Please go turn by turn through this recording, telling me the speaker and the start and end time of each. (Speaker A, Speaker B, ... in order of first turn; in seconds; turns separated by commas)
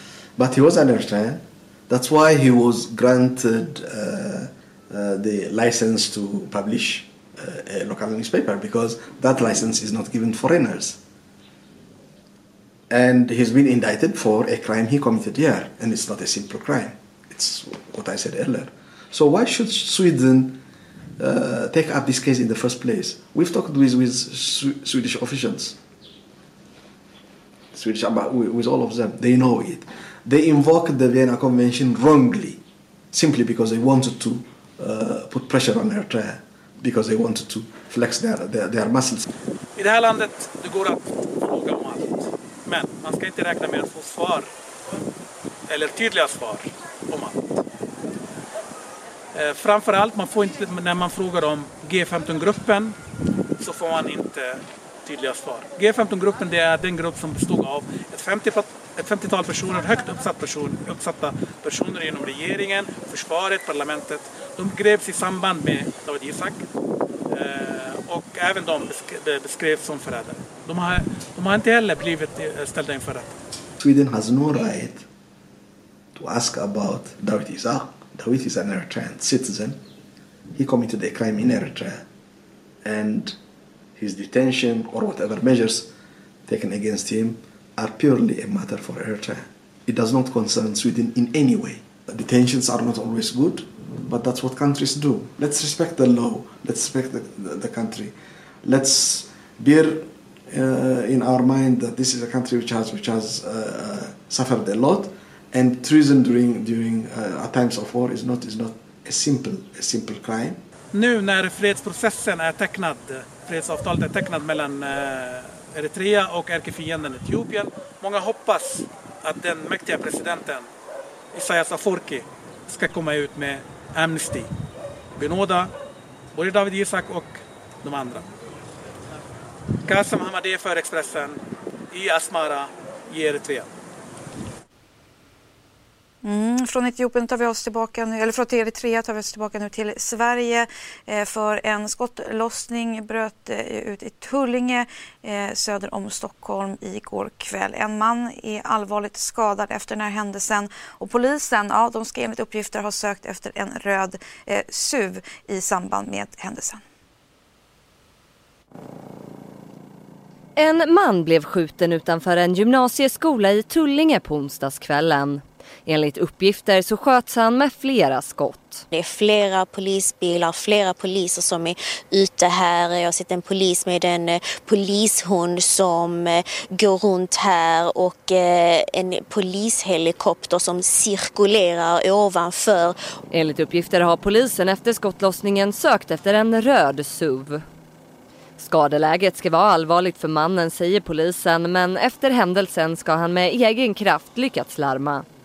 Speaker A: 0.4-11.0, Speaker A: 12.9-20.6, Speaker A: 21.2-25.8, Speaker A: 27.7-39.2, Speaker B: 39.8-44.5, Speaker B: 45.7-47.6, Speaker B: 49.4-52.9, Speaker B: 53.6-66.6, Speaker B: 67.3-73.3, Speaker A: 73.8-75.0, Speaker A: 76.2-79.8, Speaker A: 80.5-82.0, Speaker A: 82.8-83.4, Speaker A: 84.0-85.9, Speaker A: 86.5-110.6, Speaker B: 110.9-120.7, Speaker B: 121.3-124.5, Speaker B: 125.2-125.7, Speaker B: 126.3-128.2, Speaker B: 129.8-131.4, Speaker B: 131.9-133.7, Speaker C: 136.2-156.8, Speaker D: 160.6-168.8, Speaker E: 168.9-183.2, Speaker D: 183.3-187.6, Speaker D: 188.6-195.2